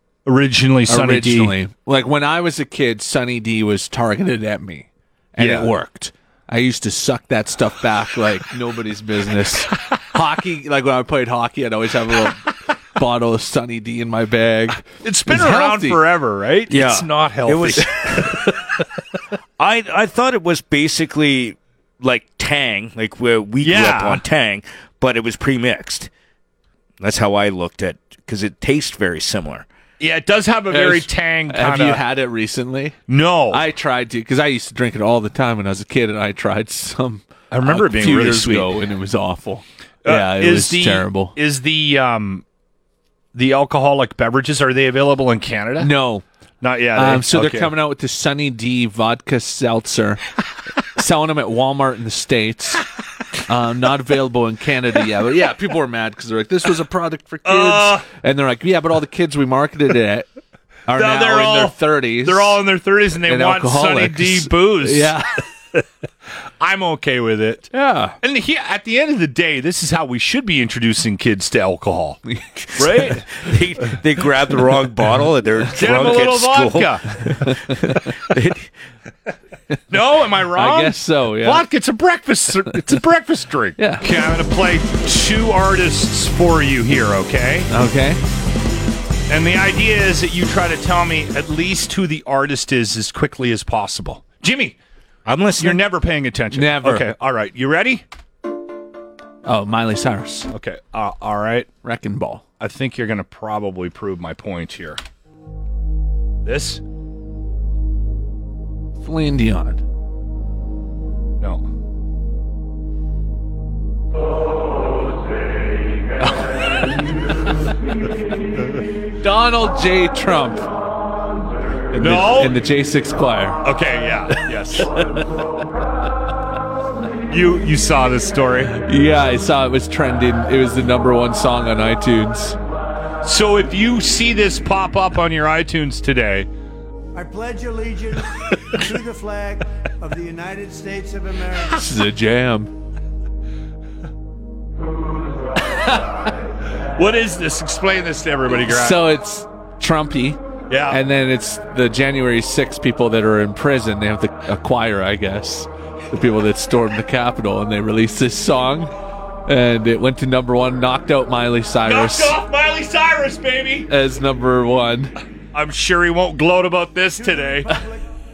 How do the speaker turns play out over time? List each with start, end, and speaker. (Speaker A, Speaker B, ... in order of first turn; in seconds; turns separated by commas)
Speaker A: 0.2-1.5, Speaker B: 0.9-16.0, Speaker A: 5.4-5.7, Speaker A: 15.0-18.5, Speaker C: 16.7-18.5, Speaker C: 19.6-26.1, Speaker A: 23.6-24.2, Speaker C: 27.0-29.6, Speaker A: 30.0-32.0, Speaker B: 30.7-33.0, Speaker A: 33.1-33.6, Speaker B: 33.5-41.4, Speaker A: 37.5-38.7, Speaker A: 40.0-42.4, Speaker A: 43.3-45.9, Speaker B: 45.8-46.2, Speaker A: 46.6-47.7, Speaker B: 46.9-50.2, Speaker B: 51.0-52.8, Speaker B: 53.5-60.3, Speaker A: 57.4-58.0, Speaker B: 60.9-62.6, Speaker A: 60.9-65.1, Speaker B: 63.3-65.4, Speaker A: 66.6-67.7, Speaker B: 67.7-68.2, Speaker A: 68.2-72.2, Speaker A: 72.8-73.3, Speaker C: 73.3-78.7, Speaker A: 75.7-77.2, Speaker A: 79.9-87.7, Speaker B: 80.5-81.6, Speaker B: 83.8-84.0, Speaker B: 87.7-88.2, Speaker A: 89.3-94.8, Speaker C: 95.2-95.8, Speaker A: 95.6-98.0, Speaker B: 96.5-97.1, Speaker B: 99.4-100.5, Speaker A: 100.5-101.7, Speaker B: 101.8-102.4, Speaker A: 102.6-105.0, Speaker A: 106.4-106.8, Speaker B: 109.0-109.8, Speaker A: 111.4-111.6, Speaker B: 116.2-116.7, Speaker B: 119.2-120.7, Speaker B: 121.9-123.6, Speaker A: 122.0-122.6, Speaker A: 123.6-125.0, Speaker B: 124.4-125.2, Speaker A: 127.3-128.8, Speaker B: 128.8-132.6, Speaker A: 133.2-136.5, Speaker D: 137.1-141.8, Speaker B: 141.7-142.7, Speaker B: 145.7-146.0, Speaker A: 147.0-149.1, Speaker B: 148.5-158.9, Speaker A: 150.7-151.0, Speaker B: 159.5-162.3, Speaker A: 161.8-163.9, Speaker B: 163.9-165.1, Speaker A: 165.5-167.8, Speaker D: 167.4-168.0